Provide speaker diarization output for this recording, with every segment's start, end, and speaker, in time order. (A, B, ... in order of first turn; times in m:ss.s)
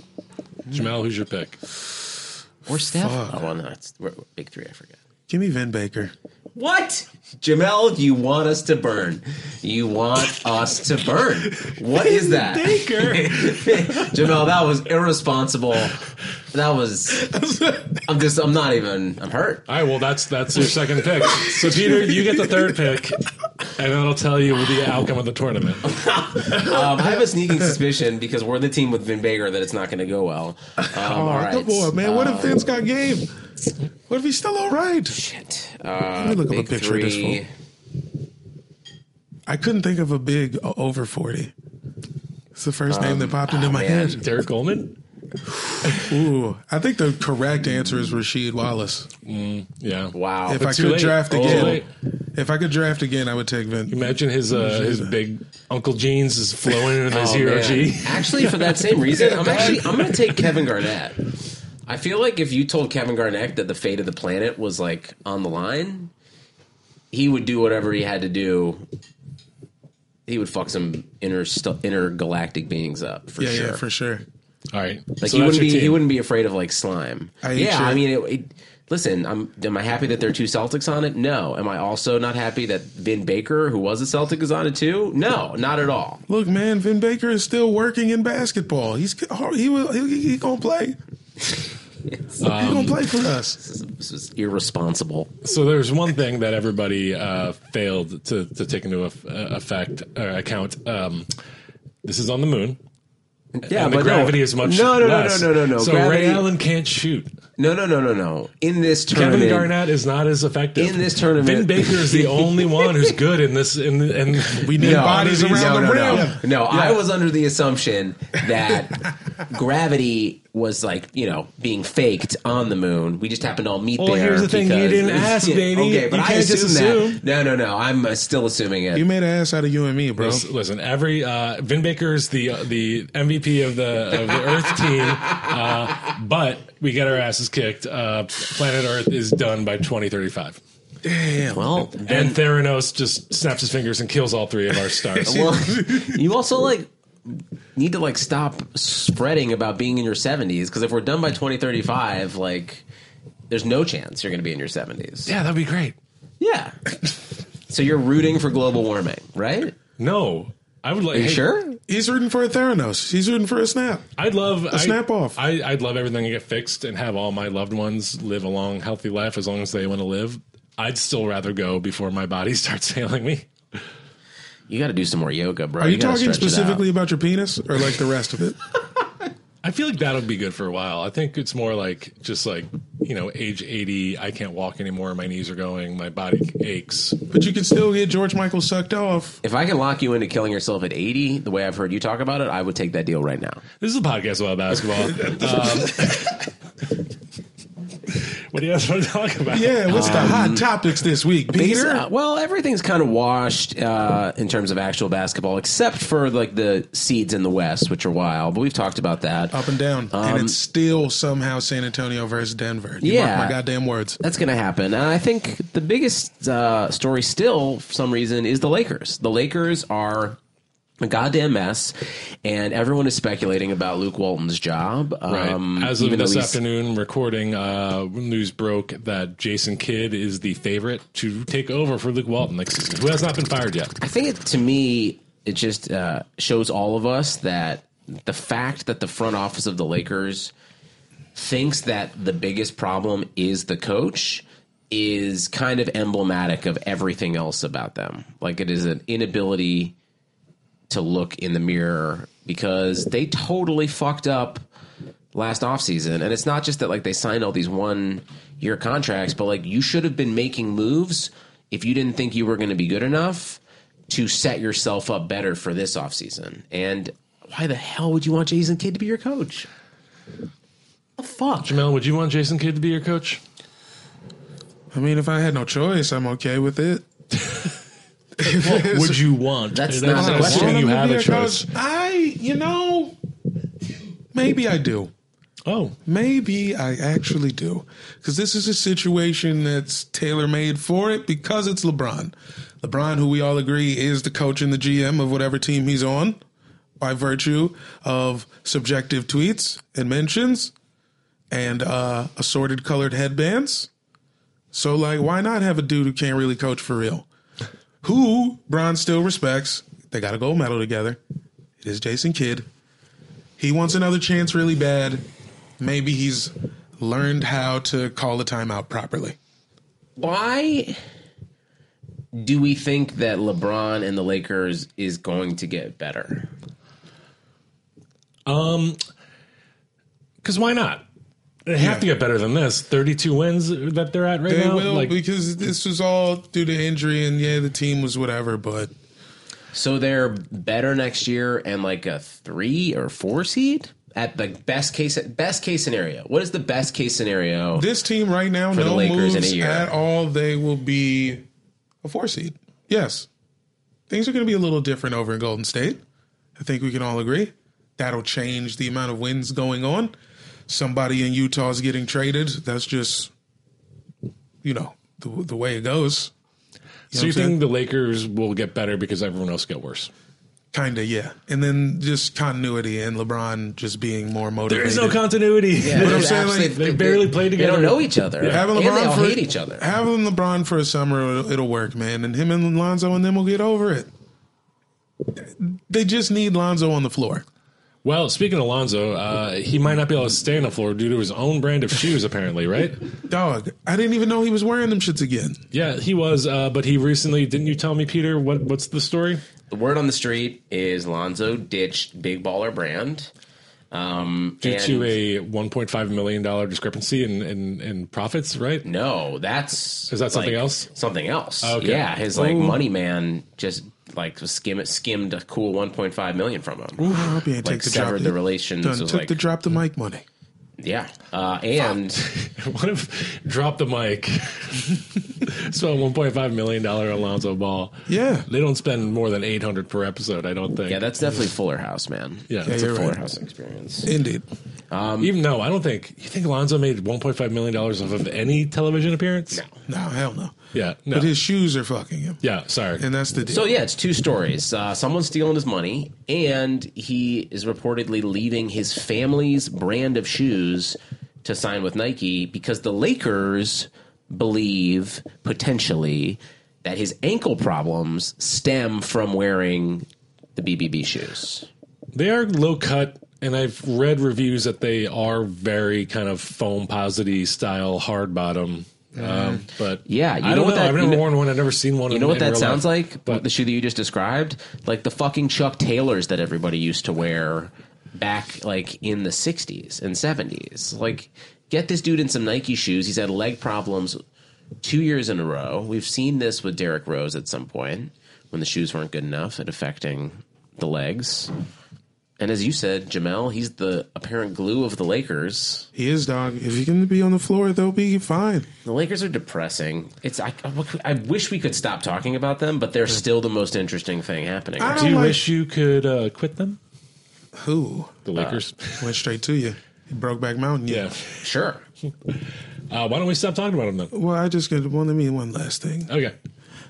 0:00.7-0:01.6 A
0:02.6-0:05.0 B
0:02.9-0:03.4 C
0:05.3-0:06.1 C
0:06.6-0:16.0 B
0:12.0-0:14.1 A
0:16.5-0:17.2 B
0:17.2-0:18.0 C
0:18.0-0:19.6 B
0:19.7-0:25.9 A
0:21.2-0:22.9 C
0:25.8-0:32.6 B
0:26.6-0:27.0 C
0:30.8-0:33.4 C
0:34.1-0:35.2 C
0:35.1-0:37.5 B
0:36.2-0:37.4 C
0:39.5-0:41.5 C
0:42.5-0:44.2 C
0:42.9-0:44.2 B
0:44.2-0:45.0 A
0:45.8-0:46.1 A
0:46.0-0:49.1 C
0:49.2-0:51.9 A
0:50.1-0:50.8 B
0:50.5-0:55.1 C
0:51.3-0:51.8 B
0:53.9-0:58.8 A
0:57.1-1:01.2 B
0:59.1-1:00.0 C
0:59.6-0:59.8 A
1:01.9-1:06.1 B
1:07.1-1:08.8 B
1:10.3-1:13.8 B
1:13.4-1:14.2 C
1:14.7-1:16.0 A
1:15.2-1:26.2 B
1:17.4-1:18.0 C
1:26.3-1:31.0 C
1:32.4-1:33.1 A
1:32.4-1:33.6 C
1:33.6-1:35.4 B
1:35.4-1:41.3 A
1:42.0-1:42.8 A
1:43.5-1:46.4 B
1:43.7-1:47.3 A
1:47.6-1:49.7 B
1:49.1-1:56.3 A
1:50.8-1:53.1 B
1:54.6-1:57.0 C
1:54.7-2:09.0 B
2:04.0-2:07.2 A
2:08.9-2:10.5 C
2:10.2-2:20.6 A
2:21.0-2:21.9 C
2:21.5-2:22.4 B
2:22.1-2:25.6 A
2:25.2-2:32.8 B
2:25.2-2:26.1 C
2:33.5-2:35.3 B
2:35.2-2:36.0 A
2:36.4-2:36.8 B
2:37.7-2:39.7 B
2:40.0-2:41.5 A
2:41.1-2:41.8 B
2:41.9-2:44.0 C
2:44.2-2:53.8 A
2:44.7-2:45.4 C
2:54.7-2:56.8 B
2:55.8-2:58.6 C
2:59.6-3:07.2 A
3:07.3-3:09.4 C
3:09.4-3:13.6 B
3:13.8-3:16.4 A
3:15.2-3:16.1 C
3:18.1-3:20.4 A
3:19.5-3:22.1 C
3:19.9-3:20.7 B
3:21.5-3:29.6 B
3:29.5-3:34.2 C
3:30.1-3:30.6 B
3:33.0-3:33.6 B
3:34.2-3:40.4 B
3:41.0-3:46.6 B
3:45.3-3:53.9 A
3:54.0-4:00.5 B
4:01.3-4:09.9 B
4:10.9-4:14.7 B
4:15.3-4:29.7 B
4:31.2-4:31.7 B
4:31.6-4:33.4 A
4:34.9-4:37.1 C
4:38.4-4:39.2 C
4:38.4-4:41.7 A
4:39.7-4:40.8 B
4:40.1-4:43.2 C
4:44.3-4:45.1 C
4:45.7-4:46.0 A
4:46.1-4:56.4 C
4:57.0-5:00.7 C
5:01.5-5:03.9 C
5:04.7-5:07.2 C
5:08.0-5:11.2 C
5:11.8-5:12.7 C
5:13.6-5:15.2 C
5:15.8-5:19.4 C
5:20.2-5:21.0 B
5:22.3-5:26.5 B
5:28.4-5:29.0 A
5:30.4-5:31.0 A
5:31.7-5:35.2 A
5:31.8-5:32.1 C
5:34.5-5:38.9 C
5:39.7-5:47.9 B
5:47.7-5:51.4 C
5:48.7-5:49.9 B
5:52.0-5:53.3 C
5:54.1-5:56.0 C
5:56.6-6:00.1 C
6:00.7-6:03.3 C
6:04.6-6:06.3 C
6:07.1-6:07.6 C
6:07.1-6:10.1 A
6:10.7-6:15.2 C
6:14.7-6:18.7 A
6:15.8-6:19.8 B
6:15.9-6:16.8 C
6:18.4-6:24.1 C
6:25.4-6:27.4 C
6:28.0-6:33.0 A
6:33.3-6:35.6 C
6:35.7-6:39.4 A
6:39.7-6:43.3 B
6:43.9-6:45.1 B
6:44.6-6:48.8 A
6:48.8-6:57.1 B
6:50.1-6:50.9 A
6:51.6-6:52.7 A
6:52.4-6:52.7 C
6:57.0-7:00.2 C
6:57.0-6:57.3 A
6:57.6-6:59.4 B
7:00.8-7:02.2 B
7:02.2-7:11.0 A
7:08.1-7:08.4 C
7:10.9-7:14.1 B
7:12.5-7:12.8 A
7:12.7-7:13.2 C
7:14.0-7:14.4 C
7:14.9-7:15.3 B
7:15.2-7:19.6 A
7:19.9-7:20.6 C
7:20.7-7:21.3 A
7:21.1-7:22.4 C
7:22.4-7:23.0 A
7:23.0-7:23.7 C
7:23.5-7:41.7 B
7:42.1-7:53.4 A
7:49.2-7:49.7 C
7:50.0-7:51.3 B
7:52.1-8:04.2 B
8:04.8-8:11.5 B
8:12.4-8:15.9 B
8:15.9-8:18.7 C
8:18.8-8:25.1 B
8:24.8-8:25.4 C
8:24.9-8:26.8 A
8:27.6-8:28.2 C
8:28.2-8:29.1 A
8:28.4-8:28.6 B
8:29.0-8:31.1 C
8:30.9-8:31.4 A
8:31.4-8:31.8 B
8:32.9-8:34.1 A
8:34.1-8:36.1 C
8:36.1-8:36.4 A